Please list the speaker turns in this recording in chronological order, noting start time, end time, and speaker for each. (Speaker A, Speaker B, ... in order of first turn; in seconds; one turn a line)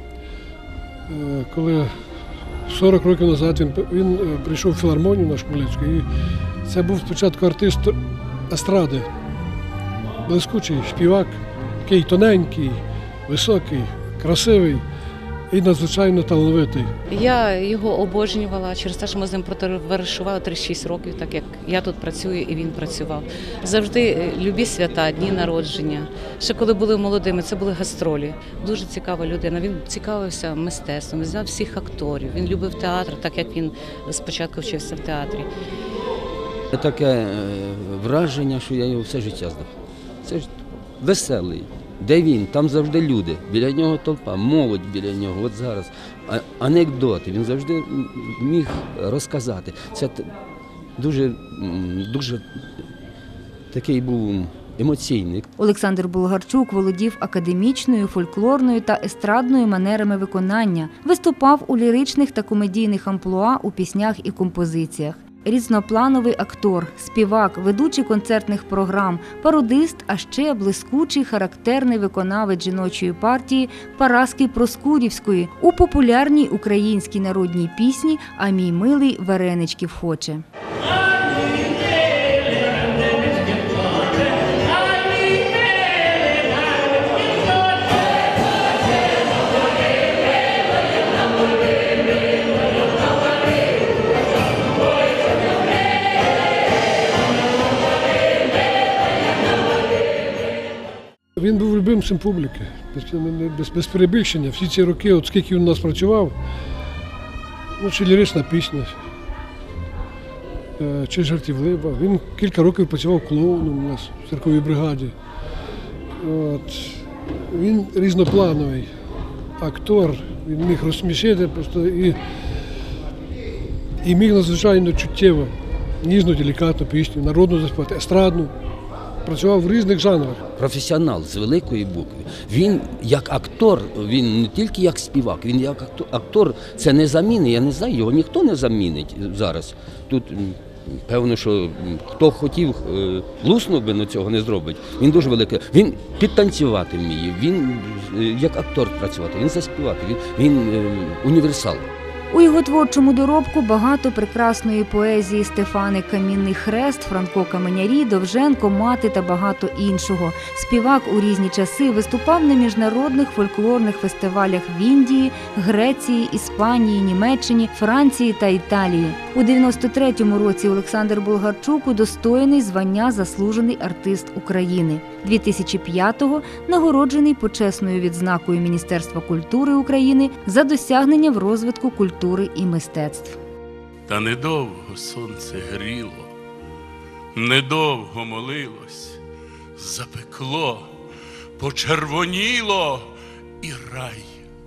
Speaker A: 1.1-1.9
Speaker A: 2.7-6.1
Speaker A: 6.7-8.0
Speaker A: 8.5-9.1
Speaker A: 10.3-14.8
Speaker A: 15.5-16.9
Speaker B: 17.1-35.5
Speaker C: 36.7-39.7
Speaker C: 40.2-50.3
Speaker C: 51.0-52.4
Speaker C: 53.7-55.5
Speaker D: 55.6-80.4
Speaker A: 101.4-106.3
Speaker A: 107.8-109.0
Speaker A: 110.8-115.2
Speaker A: 116.2-118.9
Speaker A: 119.6-122.2
Speaker A: 124.0-128.5
Speaker A: 129.3-130.4
Speaker C: 130.6-151.9
Speaker D: 152.3-183.4
Speaker E: 184.1-186.3
Speaker E: 187.3-189.2
Speaker E: 189.8-190.9
Speaker E: 191.6-193.1
Speaker E: 193.6-194.3